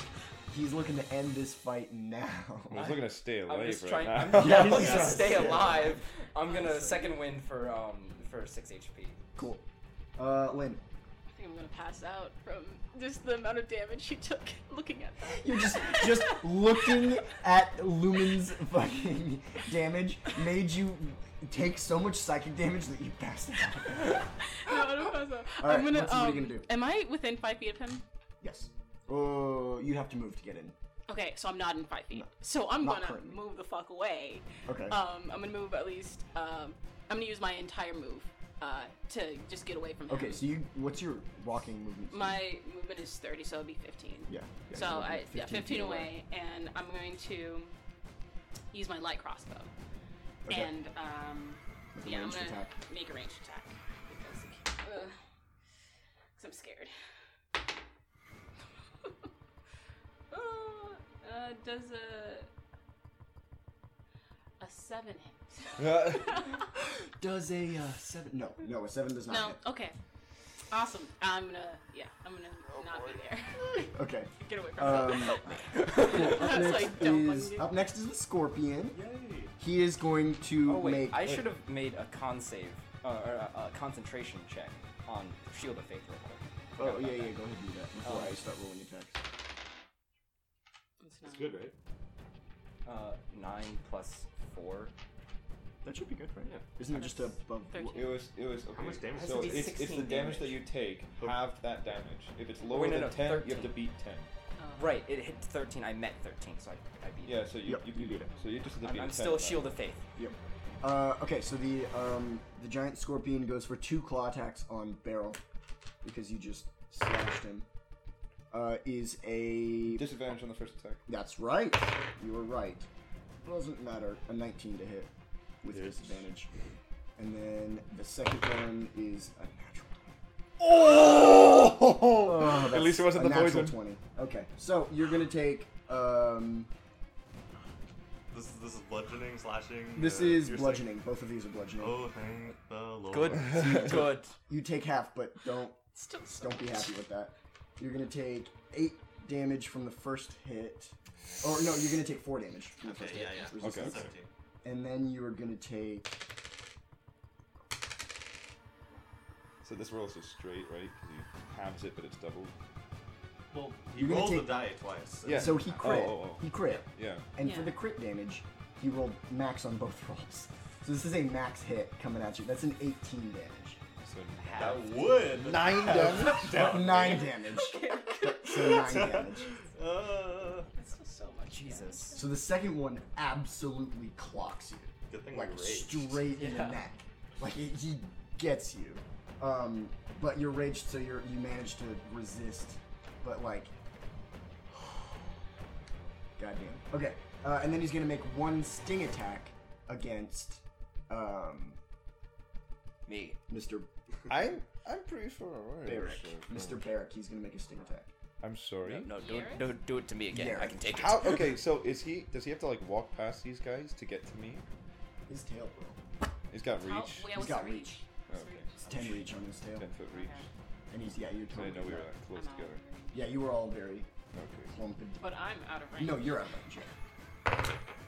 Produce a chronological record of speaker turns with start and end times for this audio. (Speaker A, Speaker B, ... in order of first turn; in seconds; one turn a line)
Speaker A: 0.5-2.9
Speaker B: 2.7-5.1
Speaker C: 2.7-9.2
Speaker A: 4.3-5.9
Speaker D: 4.5-5.9
Speaker E: 6.5-7.1
Speaker A: 9.3-9.6
Speaker A: 10.2-10.8
Speaker E: 11.3-17.0
Speaker A: 15.2-26.7
Speaker E: 24.1-28.0
Speaker A: 28.4-30.7
Speaker E: 31.1-40.4
Speaker A: 32.1-33.4
Speaker A: 34.6-35.0
Speaker A: 40.1-42.4
Speaker E: 42.1-47.7
Speaker A: 44.3-46.1
Speaker E: 48.7-49.7
Speaker A: 50.4-50.7
Speaker E: 50.5-55.1
Speaker A: 51.9-52.8
Speaker E: 56.4-56.9
Speaker E: 60.3-62.5
Speaker E: 64.6-66.6
Speaker B: 65.8-66.4
Speaker A: 66.7-69.6
Speaker E: 69.3-69.9
Speaker E: 70.7-77.7
Speaker A: 73.8-79.0
Speaker C: 75.8-76.3
Speaker D: 78.9-79.5
Speaker A: 79.6-81.4
Speaker C: 80.6-87.3
Speaker A: 86.8-89.2
Speaker C: 88.0-88.4
Speaker E: 91.0-91.5
Speaker D: 91.2-91.7
Speaker C: 92.8-94.9
Speaker A: 95.8-98.2
Speaker E: 96.9-98.2
Speaker B: 97.9-104.3
Speaker D: 98.7-99.8
Speaker C: 99.2-100.6
Speaker D: 101.2-101.4
Speaker C: 102.7-103.8
Speaker E: 104.6-105.0
Speaker C: 104.8-107.5
Speaker B: 107.2-109.7
Speaker A: 107.6-108.3
Speaker C: 108.8-110.0
Speaker A: 110.2-115.4
Speaker A: 116.0-117.7
Speaker A: 118.5-120.0
Speaker B: 119.9-121.0
Speaker A: 121.1-122.9
Speaker A: 123.4-125.1
Speaker A: 125.6-126.5
Speaker D: 125.7-126.1
Speaker A: 127.2-130.1
Speaker B: 130.6-133.8
Speaker A: 132.2-136.7
Speaker D: 138.3-140.9
Speaker A: 139.9-142.0
Speaker D: 141.8-143.6
Speaker C: 143.1-144.3
Speaker A: 143.5-154.1
Speaker B: 143.6-144.1
Speaker E: 146.0-146.8
Speaker D: 152.8-154.3
Speaker B: 153.6-154.0
Speaker A: 154.6-156.2
Speaker B: 159.6-162.5
Speaker D: 163.5-165.8
Speaker A: 163.9-164.6
Speaker B: 165.2-167.3
Speaker A: 165.3-173.8
Speaker E: 167.4-167.8
Speaker B: 174.0-177.2
Speaker C: 174.4-175.2
Speaker D: 174.6-177.3
Speaker A: 175.9-179.5
Speaker E: 177.3-179.2
Speaker D: 178.6-180.7
Speaker E: 180.7-182.3
Speaker C: 181.5-182.2
Speaker A: 182.1-193.7
Speaker D: 185.1-186.3
Speaker C: 186.4-186.8
Speaker A: 194.7-195.1
Speaker A: 196.4-201.8
Speaker C: 203.1-203.4
Speaker A: 203.5-203.9
Speaker B: 204.3-206.8
Speaker A: 205.8-208.1
Speaker B: 208.4-209.1
Speaker C: 208.8-211.5
Speaker E: 209.1-209.7
Speaker A: 210.3-210.9
Speaker B: 210.9-214.6
Speaker A: 215.3-216.0
Speaker B: 216.5-217.5
Speaker E: 216.8-219.3
Speaker A: 217.3-218.0
Speaker B: 218.3-219.0
Speaker A: 218.8-219.9
Speaker B: 219.8-220.5
Speaker E: 220.1-220.5
Speaker A: 220.9-222.1
Speaker B: 221.5-222.8
Speaker E: 222.3-223.3
Speaker A: 223.1-224.1
Speaker B: 224.3-224.7
Speaker A: 224.7-225.3
Speaker E: 225.2-226.4
Speaker A: 225.9-226.9